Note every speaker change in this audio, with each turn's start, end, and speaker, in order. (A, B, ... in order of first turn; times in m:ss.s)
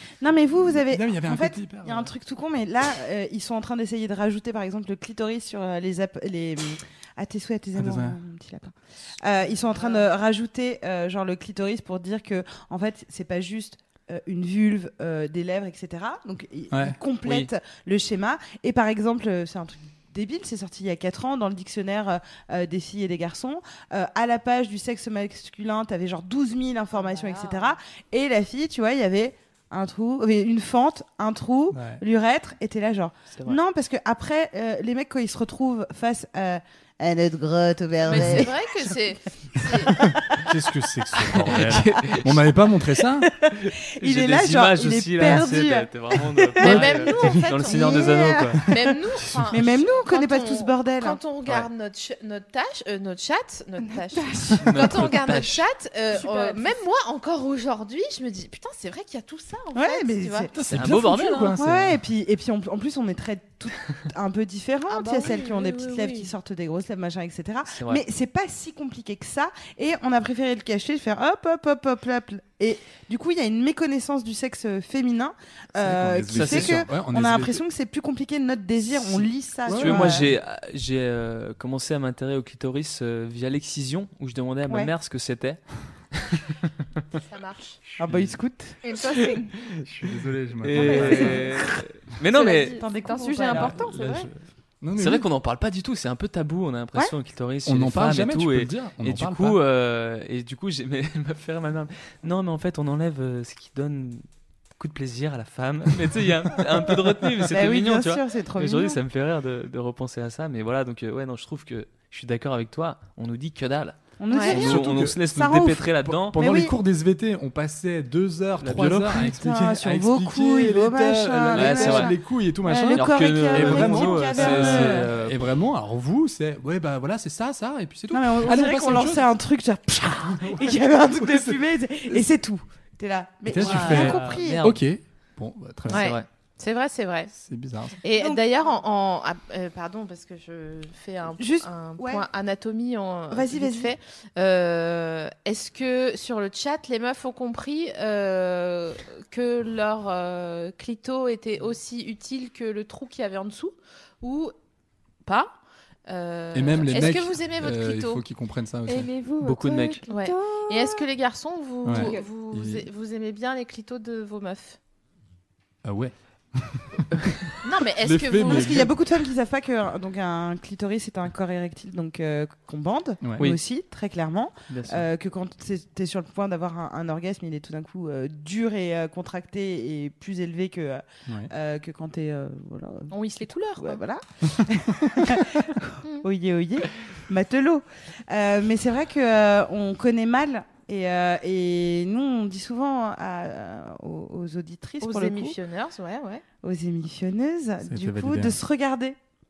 0:00.2-0:38.6 A
0:00.7-0:02.1 B
0:07.8-0:08.2 B
0:16.7-0:17.0 B
0:17.2-0:17.5 C
0:27.0-0:27.8 D
0:31.7-0:32.0 B
0:38.0-0:40.0 D
0:39.7-0:40.4 A
0:40.0-0:43.3 B
0:41.1-0:42.5 C
0:43.2-0:48.7 A
0:43.6-0:48.6 C
0:46.6-1:00.5 D
0:46.6-0:47.4 B
0:49.2-0:49.6 C
0:49.5-0:51.2 A
0:53.8-0:54.7 E
0:54.6-0:55.6 C
0:56.1-0:56.8 E
0:59.7-1:00.5 A
1:00.5-1:02.0 B
1:00.7-1:01.6 C
1:01.6-1:20.3 A
1:04.9-1:06.3 D
1:07.7-1:08.0 C
1:15.8-1:17.6 B
1:16.3-1:16.8 C
1:19.7-1:20.3 B
1:19.7-1:26.4 C
1:27.3-1:27.8 D
1:28.0-1:28.4 B
1:28.0-1:28.8 A
1:28.8-1:29.5 E
1:29.6-1:31.4 B
1:30.6-1:32.8 C
1:30.8-1:31.5 A
1:30.9-1:31.4 E
1:32.3-1:34.3 E
1:32.6-1:33.8 A
1:33.5-1:35.3 B
1:35.0-1:44.2 C
1:37.6-1:39.6 B
1:44.8-1:56.4 C
1:47.5-1:49.0 A
1:54.2-1:56.8 A
1:54.3-1:54.6 D
1:54.5-2:09.3 B
1:58.6-1:59.3 C
1:59.2-2:05.1 A
2:01.6-2:02.2 C
2:02.9-2:05.5 C
2:08.1-2:14.6 A
2:10.3-2:11.6 B
2:13.5-2:16.1 B
2:13.6-2:14.8 C
2:15.9-2:16.3 C
2:15.9-2:17.3 D
2:17.3-2:18.0 B
2:18.0-2:34.5 D
2:18.2-2:18.4 A
2:21.4-2:22.3 A
2:23.3-2:24.0 A
2:35.2-2:35.6 D
2:36.1-2:38.2 D
2:36.5-2:39.2 B
2:38.9-2:41.1 E
2:39.4-2:40.0 C
2:40.1-2:44.8 D
2:41.8-2:42.9 B
2:41.9-2:42.3 E
2:45.8-2:49.0 B
2:47.6-2:48.9 D
2:48.5-3:15.6 A
2:54.7-2:55.0 C
3:03.1-3:04.0 D
3:15.0-3:16.4 D
3:16.6-3:19.2 A
3:17.9-3:18.6 B